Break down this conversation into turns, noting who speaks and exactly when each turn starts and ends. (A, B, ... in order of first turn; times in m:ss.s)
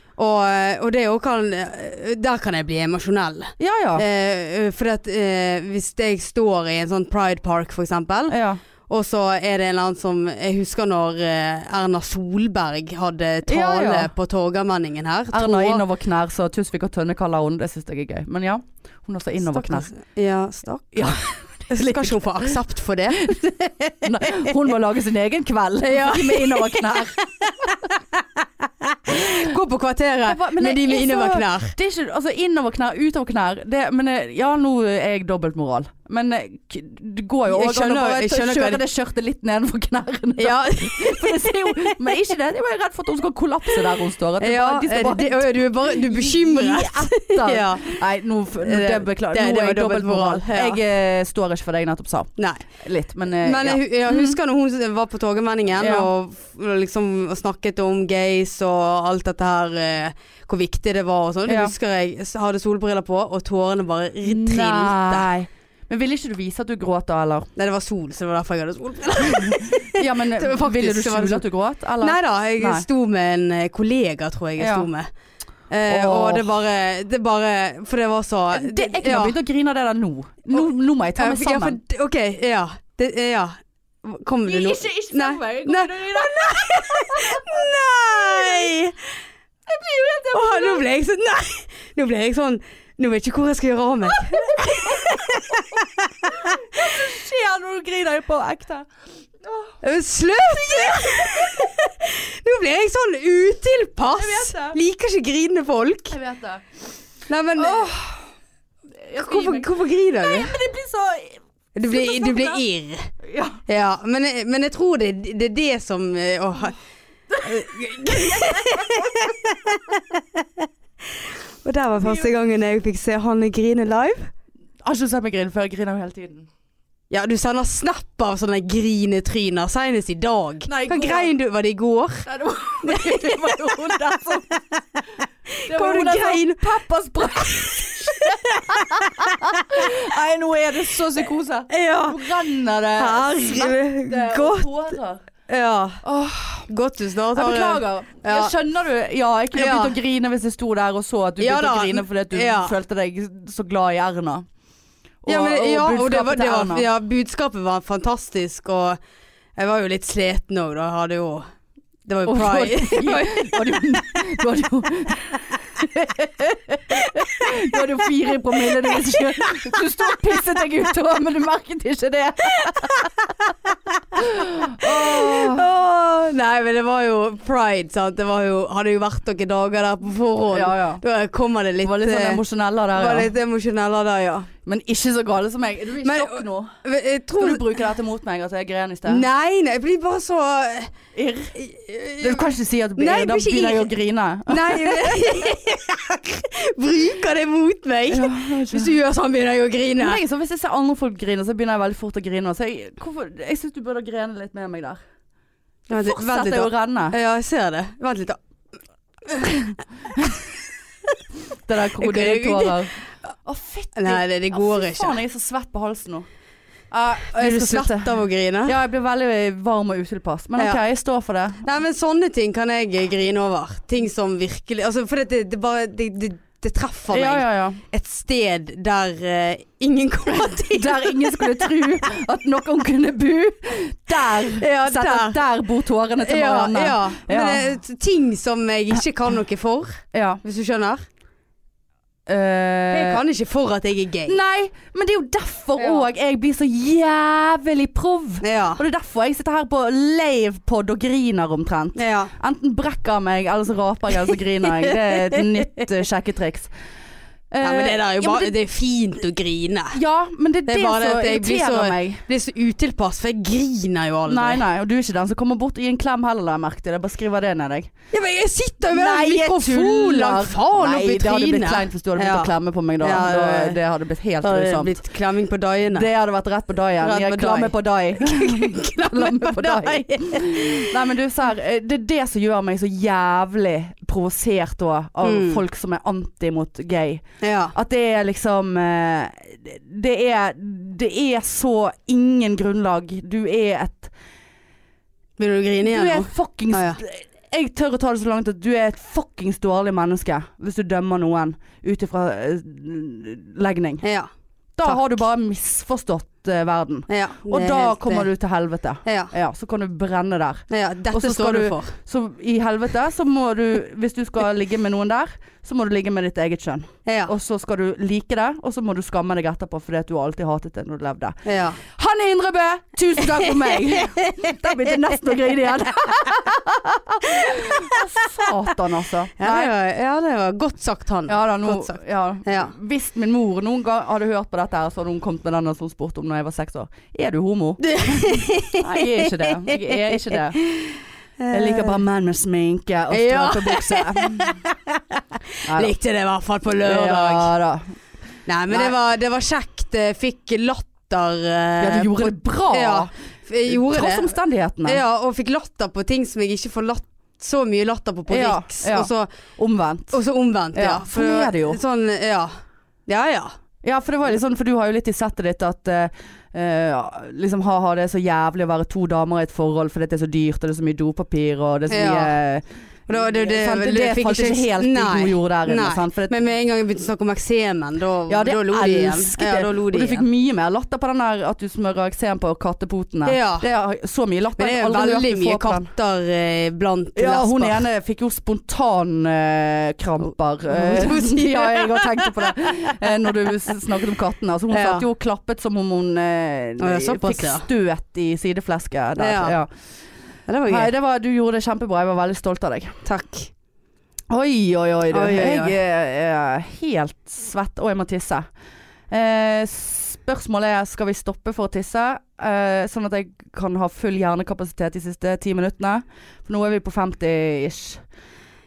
0:00.2-0:15.8 A
0:03.6-0:04.0 B
0:08.3-0:08.6 B
0:13.5-0:14.1 B
0:15.3-0:19.9 B
0:19.4-0:24.5 A
0:20.9-0:22.5 B
0:23.2-0:27.7 B
0:25.8-0:31.7 A
0:29.1-0:29.5 B
0:30.3-0:54.4 B
0:37.5-0:38.8 A
0:40.4-0:42.1 A
0:44.4-0:48.0 A
0:48.6-0:50.8 A
0:52.4-0:52.6 A
0:53.4-1:05.3 A
0:55.8-0:56.1 B
1:01.5-1:01.7 B
1:04.2-1:07.5 B
1:07.6-1:11.4 A
1:09.3-1:12.8 B
1:12.0-1:15.1 A
1:14.6-1:14.9 B
1:15.7-1:19.3 A
1:15.9-1:16.4 B
1:18.5-1:21.8 B
1:20.5-1:29.2 A
1:24.4-1:28.7 B
1:29.7-1:30.9 B
1:30.3-1:36.8 A
1:34.4-1:35.6 B
1:36.3-1:38.9 B
1:39.4-1:39.7 B
1:39.8-1:46.2 A
1:40.4-1:41.7 B
1:44.2-1:44.8 B
1:46.1-1:46.6 B
1:47.3-1:47.9 A
1:47.6-1:48.2 B
1:49.0-1:52.6 B
1:49.2-1:50.6 A
1:51.8-1:53.1 A
1:53.2-1:53.6 B
1:53.7-1:56.8 A
1:57.4-2:04.3 A
1:58.2-1:59.1 B
2:02.0-2:02.3 B
2:04.8-2:06.5 B
2:07.1-2:12.3 A
2:10.7-2:11.3 B
2:12.2-2:14.5 B
2:12.8-2:13.6 A
2:14.5-2:16.6 A
2:15.7-2:25.2 B
2:17.4-2:19.9 A
2:21.7-2:22.2 A
2:23.0-2:25.0 A
2:25.5-2:26.0 A
2:26.0-2:26.7 B
2:26.7-2:28.5 A
2:27.3-2:34.4 B
2:29.5-2:30.0 A
2:31.4-2:32.7 A
2:35.2-2:36.8 B
2:35.3-2:39.0 A
2:39.6-2:41.5 A
2:42.0-2:43.5 A
2:42.3-2:53.1 B
2:52.6-2:53.9 A
2:54.2-2:55.6 B
2:54.8-3:02.4 A
3:00.5-3:01.0 B
3:01.8-3:03.3 B
3:02.9-3:04.5 A
3:04.6-3:06.7 B
3:06.0-3:07.6 A
3:07.4-3:09.2 B
3:09.0-3:10.9 A
3:11.1-3:11.5 B
3:11.5-3:13.9 A
3:12.2-3:15.4 B
3:14.5-3:20.2 A
3:18.1-3:18.9 B
3:20.0-3:25.0 B
3:25.9-3:28.4 A
3:25.9-3:27.1 B
3:29.3-3:30.4 A
3:29.7-3:30.3 B
3:31.7-3:36.2 B
3:32.0-3:32.8 A
3:33.9-3:35.2 A
3:36.9-3:41.6 B
3:37.3-3:38.8 A
3:40.6-3:40.8 A
3:41.6-3:51.7 A
3:47.1-3:47.8 B
3:50.7-3:57.7 B
3:54.3-3:55.4 A
3:56.2-4:01.0 A
4:00.1-4:00.4 B
4:02.3-4:03.2 B
4:02.9-4:04.4 A
4:04.3-4:16.7 B
4:05.8-4:06.0 A
4:08.4-4:08.8 A
4:12.0-4:12.3 A
4:14.7-4:15.8 A
4:17.5-4:18.5 B
4:17.6-4:20.0 A
4:19.9-4:22.2 B
4:20.7-4:24.6 A
4:24.3-4:27.9 B
4:28.1-4:33.8 A
4:28.9-4:35.0 B
4:34.4-4:36.1 A
4:35.9-4:47.2 B
4:37.0-4:40.9 A
4:45.2-4:45.6 A
4:47.4-4:47.7 A
4:47.7-4:54.1 B
4:55.4-4:57.0 A
4:55.8-5:04.0 B
5:04.0-5:04.3 A
5:04.8-5:29.7 B
5:04.8-5:05.1 A
5:07.1-5:08.3 A
5:09.0-5:09.3 A
5:10.7-5:12.0 A
5:17.0-5:17.3 A
5:21.4-5:21.8 A
5:23.6-5:25.1 A
5:27.3-5:28.0 A
5:29.4-5:32.7 A
5:31.3-5:40.6 B
5:37.8-5:42.0 A
5:41.5-5:44.6 B
5:43.1-5:47.5 A
5:45.6-5:45.9 B
5:46.8-5:47.8 B
5:48.5-5:59.3 A
5:48.7-5:48.9 B
5:51.8-5:53.1 B
5:53.7-5:55.0 B
5:58.3-6:00.2 B
6:00.1-6:03.5 A
6:00.7-6:01.8 B
6:03.8-6:16.4 B
6:11.9-6:12.3 A
6:13.1-6:20.2 A
6:18.3-6:25.9 B
6:23.2-6:23.7 A
6:24.6-6:27.9 A
6:27.2-6:39.7 B
6:30.7-6:33.0 A
6:34.7-6:35.0 A
6:36.8-6:37.7 A
6:39.2-6:39.6 A
6:40.5-6:40.9 A
6:40.6-6:43.0 B
6:43.0-6:43.5 A
6:44.3-6:48.5 B
6:45.1-6:45.7 A
6:49.1-6:58.0 B